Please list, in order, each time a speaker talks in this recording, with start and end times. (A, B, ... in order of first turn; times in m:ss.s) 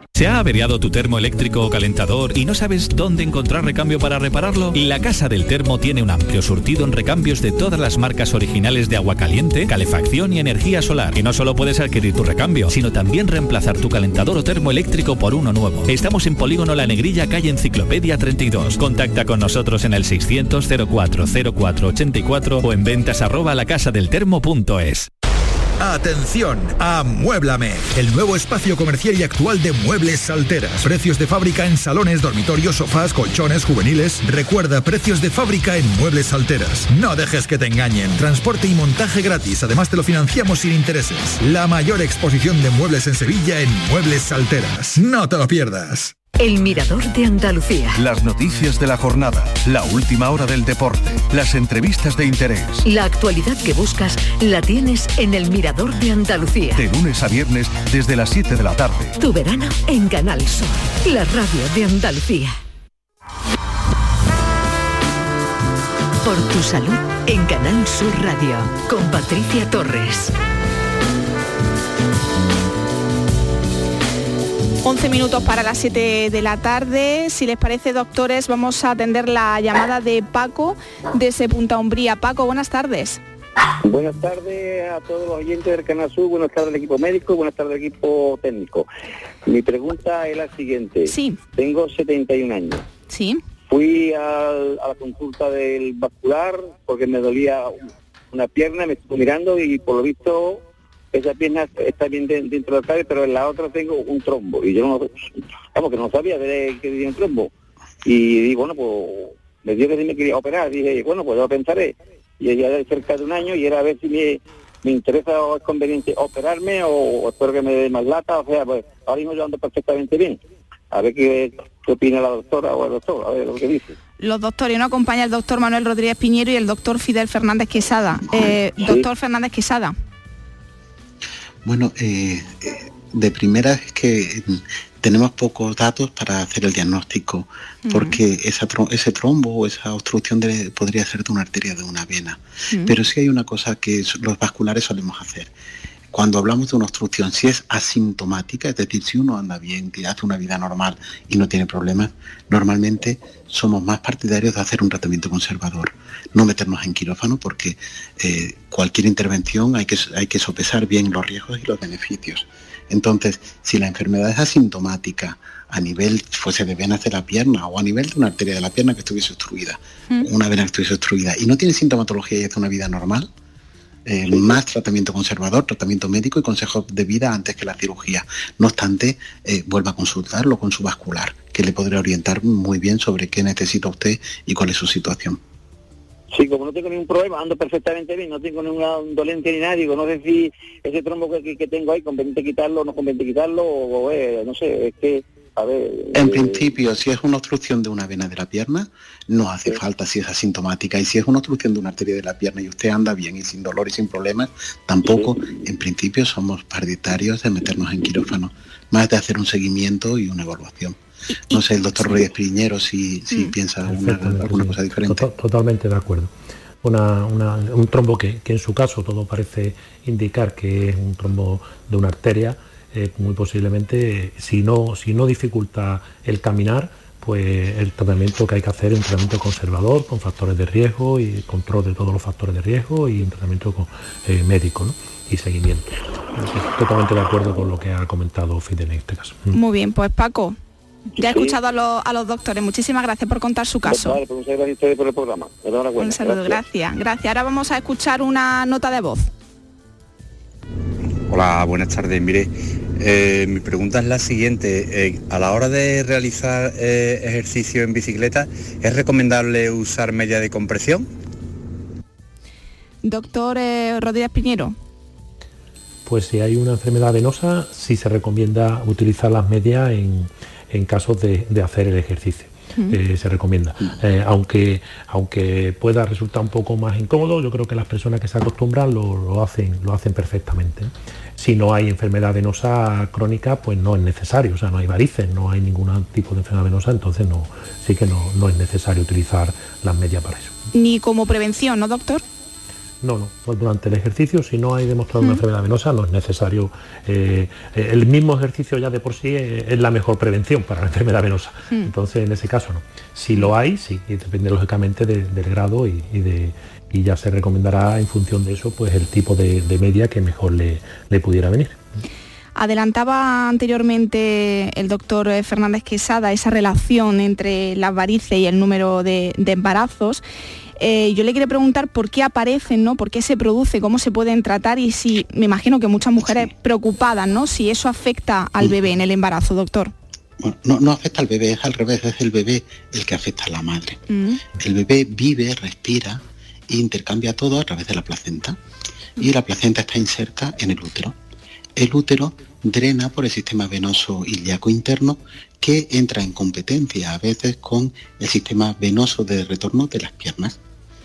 0:00.1-0:25.1 A
0:25.8-0:46.1 B
0:46.4-0:48.0 C
0:48.0-0:52.8 D
0:52.8-0:56.8 C
0:56.8-0:59.2 D
0:59.2-1:02.6 C
1:06.2-1:10.3 C
1:14.8-1:23.2 E
1:23.8-1:28.8 F
1:29.4-1:32.8 F
1:31.1-1:31.4 E
1:33.1-1:33.4 E
1:33.7-1:37.8 F
1:38.3-1:47.5 F
1:48.0-2:00.4 F
2:00.9-2:03.9 F
2:04.2-2:09.9 E
2:08.8-2:09.0 F
2:11.6-2:25.5 G
2:17.8-2:18.2 E
2:26.1-2:53.3 G
2:54.0-3:05.4 G
3:06.3-3:16.6 F
3:16.1-3:31.0 G
3:25.0-3:25.3 F
3:31.3-3:32.2 E
3:31.5-3:35.3 G
3:33.8-3:36.3 H
3:36.8-3:59.6 H
3:59.5-4:00.6 E
4:01.2-4:04.2 E
4:01.2-4:01.5 F
4:03.8-4:06.6 F
4:06.0-4:09.3 E
4:11.3-4:21.1 I
4:23.0-4:24.8 E
4:26.0-4:50.5 H
4:50.7-4:52.2 E
4:53.0-5:11.8 H
5:12.6-5:20.2 E
5:20.8-5:29.9 E
5:30.4-5:34.0 G
5:34.1-5:34.4 E
5:34.6-5:38.6 G
5:39.2-5:41.2 G
5:41.8-5:50.6 G